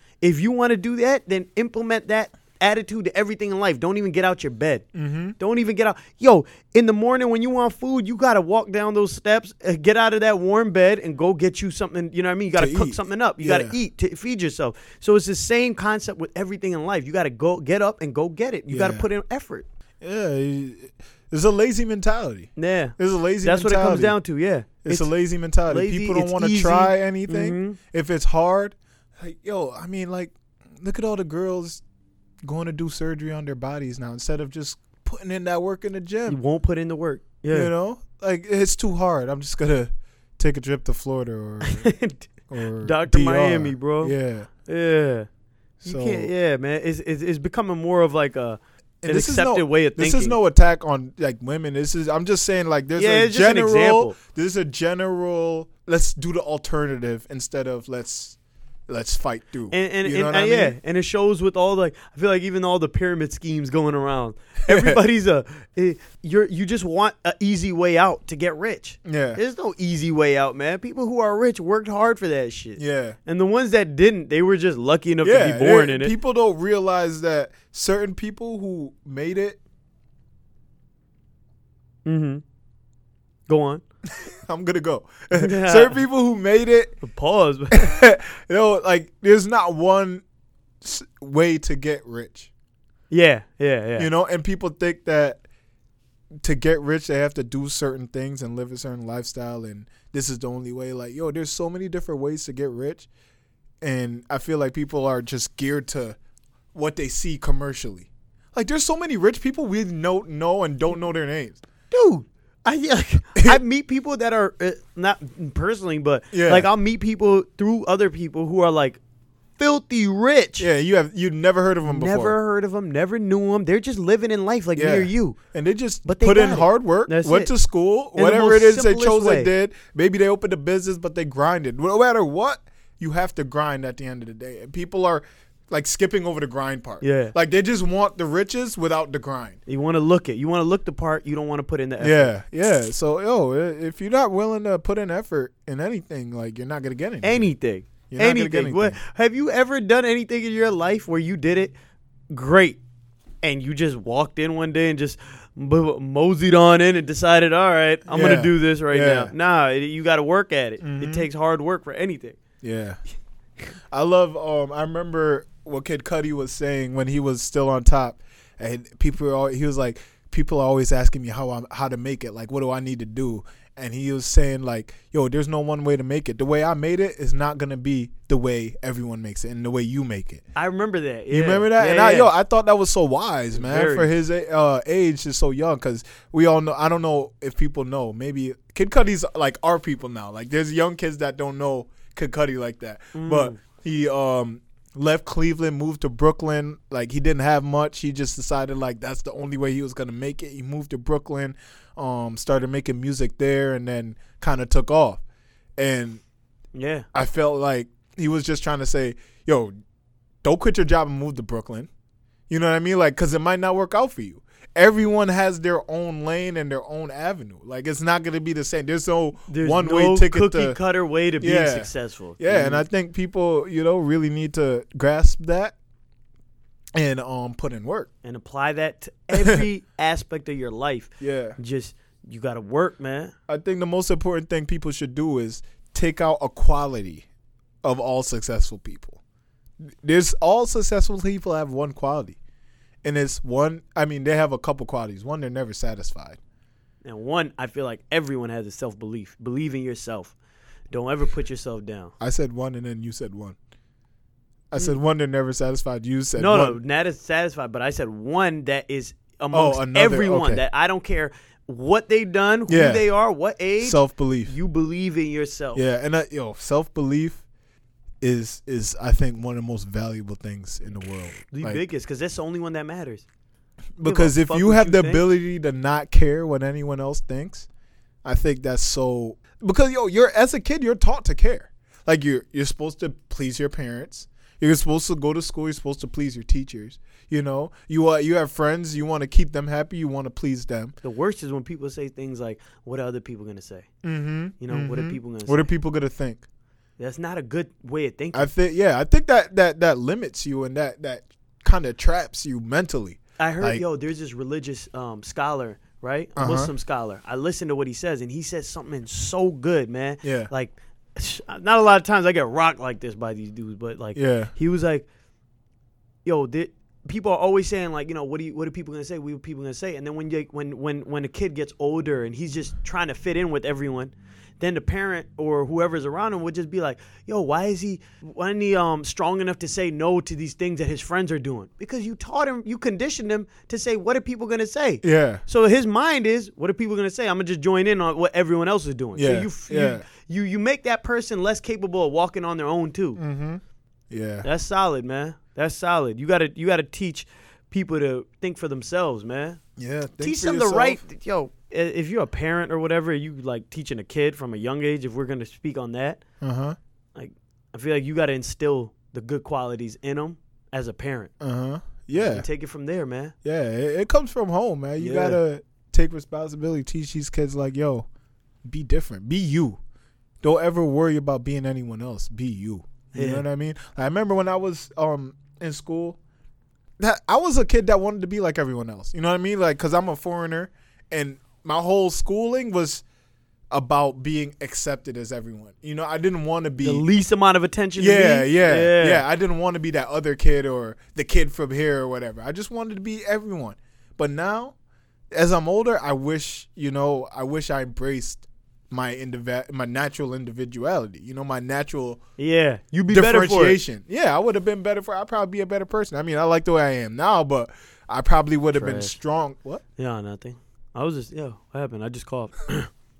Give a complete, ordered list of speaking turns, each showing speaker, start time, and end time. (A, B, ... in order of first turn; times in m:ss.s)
0:00.2-0:04.8 A
0:04.9-0:05.4 B
0:05.4-0:19.6 A
0:12.6-0:13.8 B
0:18.7-0:19.0 B
0:20.0-0:24.2 B
0:22.6-0:25.1 A
0:24.8-0:31.8 B
0:25.7-0:27.8 A
0:32.4-0:36.4 B
0:36.3-0:37.7 A
0:37.5-0:41.9 B
0:41.6-0:42.3 A
0:42.5-0:44.5 B
0:42.8-0:44.1 A
0:44.6-0:45.3 A
0:45.8-0:46.3 B
0:45.8-0:50.4 A
0:49.0-0:58.4 B
0:53.0-0:54.2 A
0:58.9-1:00.8 B
0:59.7-1:16.1 A
1:04.6-1:05.0 B
1:09.0-1:09.4 B
1:12.8-1:13.2 B
1:15.2-1:19.6 B
1:22.0-1:22.4 A
1:23.5-1:23.8 A
1:24.1-1:27.0 B
1:25.3-1:26.0 A
1:27.0-1:27.9 A
1:27.7-1:30.2 B
1:30.8-1:32.5 B
1:33.1-1:34.1 A
1:34.0-1:35.4 B
1:36.4-1:43.1 B
1:43.8-1:46.2 B
1:46.7-1:51.6 B
1:51.9-1:59.0 A
1:56.3-1:56.7 B
1:59.6-2:00.7 A
2:00.6-2:02.4 B
2:01.8-2:05.4 A
2:04.8-2:19.6 B
2:06.0-2:07.5 A
2:08.1-2:09.5 A
2:17.0-2:17.3 A
2:19.7-2:22.3 A
2:22.0-2:27.5 B
2:27.2-2:31.7 A
2:28.1-2:29.0 B
2:32.3-2:32.8 A
2:33.4-2:42.4 A
2:38.1-2:39.3 B
2:40.8-2:41.3 B
2:42.6-2:43.0 B
2:43.9-3:00.4 B
3:00.5-3:02.3 A
3:01.3-3:25.2 B
3:03.5-3:04.1 A
3:13.1-3:13.6 A
3:25.8-3:26.2 B
3:26.7-3:27.1 A
3:27.1-3:29.7 B
3:30.4-3:31.9 B
3:32.5-3:40.8 B
3:39.5-3:42.8 A
3:41.4-3:45.7 B
3:47.0-3:48.1 B
3:48.2-3:53.3 A
3:49.4-3:49.6 B
3:51.2-3:51.6 B
3:53.5-3:57.2 B
3:57.8-3:59.2 B
3:59.8-4:02.4 B
4:03.0-4:06.4 B
4:07.0-4:10.3 A
4:10.9-4:12.1 A
4:12.2-4:13.6 B
4:14.7-4:16.8 B
4:16.4-4:25.8 A
4:19.5-4:20.6 B
4:22.7-4:23.0 B
4:23.8-4:24.5 B
4:25.7-4:27.4 B
4:28.2-4:31.8 B
4:31.5-4:33.2 A
4:34.0-4:37.7 B
4:34.0-4:35.2 A
4:38.2-4:50.9 B
4:51.0-4:53.9 A
4:54.0-4:56.4 B
4:54.6-4:55.7 A
4:57.0-4:58.5 A
4:58.3-5:03.8 B
5:03.4-5:15.1 A
5:06.4-5:06.7 B
5:10.2-5:10.5 B
5:14.1-5:14.5 B
5:16.2-5:43.2 A
5:35.0-5:35.4 B
5:39.2-5:40.0 B
5:43.2-5:44.5 B
5:44.4-5:49.6 A
5:49.8-5:51.0 B
5:50.2-5:56.2 A
5:56.4-5:56.8 B
5:57.1-6:01.3 A
6:01.4-6:02.4 B
6:02.1-6:03.3 A
6:03.4-6:08.0 B
6:05.0-6:05.4 A
6:08.6-6:09.8 B
6:10.4-6:16.2 B
6:13.1-6:13.4 A
6:17.0-6:23.0 B
6:23.7-6:27.0 B
6:26.8-6:29.2 A
6:28.0-6:34.7 B
6:35.3-6:42.2 B
6:42.4-6:43.8 A
6:43.1-6:49.8 B
6:48.7-6:49.2 A
6:50.0-6:52.9 A